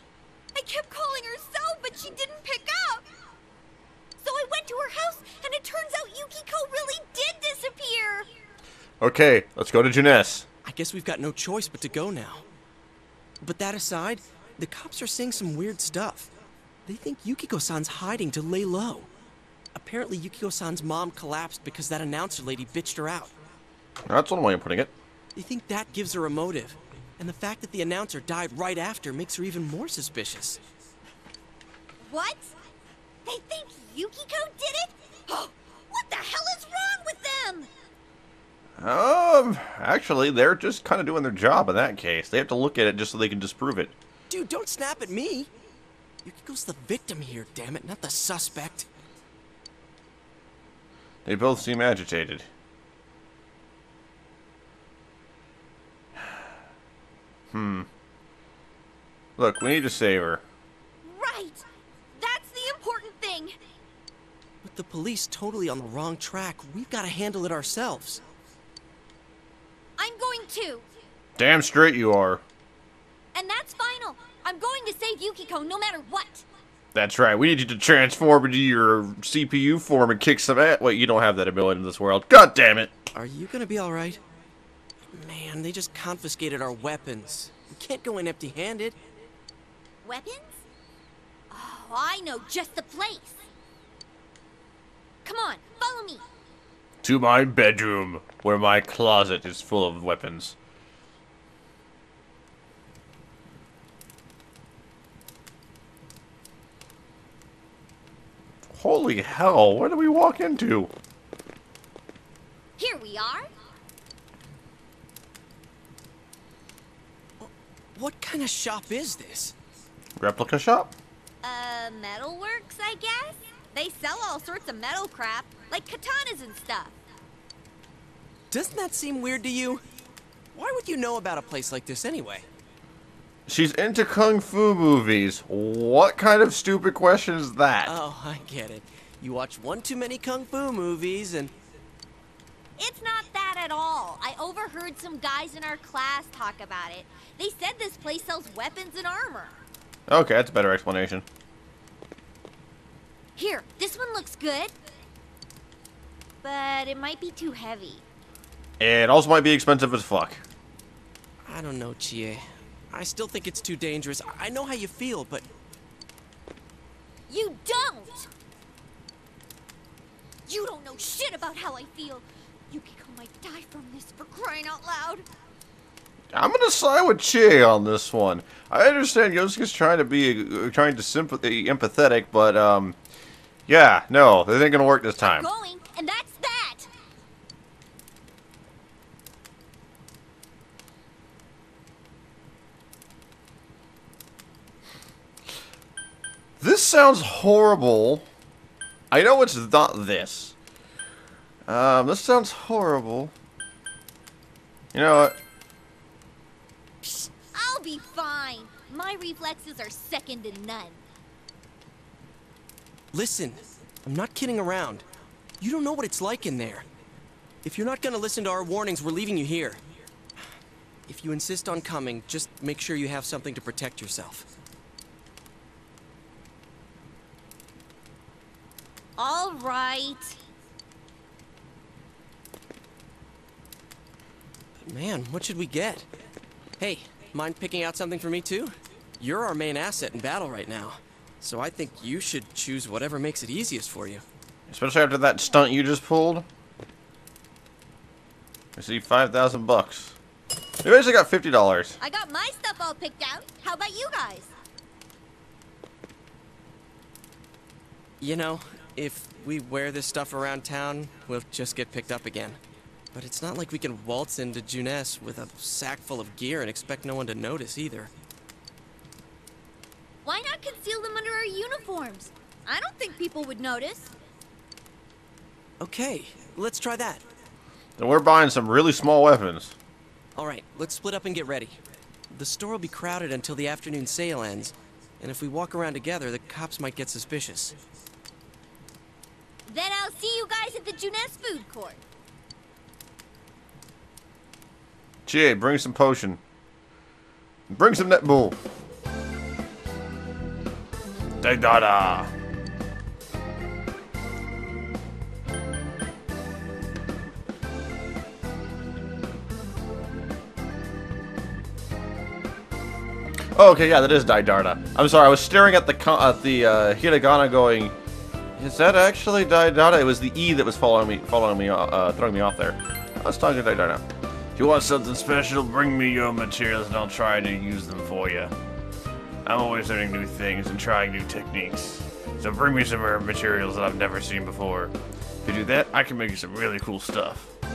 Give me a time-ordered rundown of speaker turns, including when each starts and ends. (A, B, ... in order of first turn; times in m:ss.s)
0:00.5-0:03.0 A
0:04.2-0:08.3 A
0:09.0-0:10.4 B
0:10.6-0:12.4 C
0:13.4-0:16.3 C
0:16.8-0:19.1 C
0:19.7-0:23.3 C
0:24.1-0:24.9 B
0:25.4-0:30.6 C
0:32.0-0:32.5 A
0:33.2-0:37.7 A
0:38.8-0:43.9 B
0:44.3-0:45.5 C
0:46.2-0:48.9 C
0:51.2-0:52.5 B
0:57.5-0:57.9 B
0:59.4-1:00.4 B
1:01.0-1:01.6 A
1:02.2-1:03.6 A
1:04.6-1:08.2 C
1:10.0-1:10.9 A
1:11.4-1:12.4 B
1:13.3-1:16.4 A
1:16.9-1:22.9 B
1:23.1-1:24.2 C
1:25.1-1:29.0 C
1:30.0-1:30.6 A
1:31.5-1:33.4 A
1:35.2-1:36.2 A
1:37.0-1:40.6 B
1:48.7-1:50.9 B
1:52.8-1:53.5 A
1:57.4-1:59.5 C
2:00.2-2:00.9 B
2:01.4-2:07.0 A
2:08.5-2:09.8 C
2:10.5-2:12.4 C
2:13.5-2:17.9 B
2:17.8-2:21.5 C
2:22.8-2:29.6 A
2:30.1-2:31.2 B
2:33.4-2:34.7 A
2:36.4-2:38.0 A
2:38.8-2:40.4 B
2:41.4-2:45.4 C
2:47.3-2:48.3 A
2:50.5-2:55.2 A
2:56.3-3:03.0 B
3:03.7-3:05.5 B
3:05.2-3:06.9 A
3:16.6-3:18.2 B
3:19.1-3:20.5 B
3:21.7-3:23.3 B
3:24.9-3:25.4 B
3:27.0-3:31.0 A
3:33.1-3:35.0 C
3:35.6-3:36.8 C
3:37.6-3:39.8 C
3:41.1-3:44.5 C
3:49.2-3:50.3 A
3:54.8-3:56.1 C
3:56.8-4:04.2 C
4:04.7-4:06.4 B
4:08.8-4:10.2 B
4:10.8-4:12.0 B
4:12.0-4:14.5 A
4:18.2-4:22.6 C
4:23.1-4:28.1 C
4:30.2-4:34.1 A
4:35.8-4:37.2 C
4:38.0-4:39.7 B
4:40.4-4:41.8 C
4:42.3-4:47.7 C
4:49.7-4:52.0 A
4:55.2-4:56.4 B
4:57.7-4:58.6 B
5:01.4-5:02.3 B
5:13.5-5:17.9 B
5:18.6-5:24.0 B
5:24.6-5:28.5 B
5:29.4-5:34.9 B
5:35.4-5:37.5 B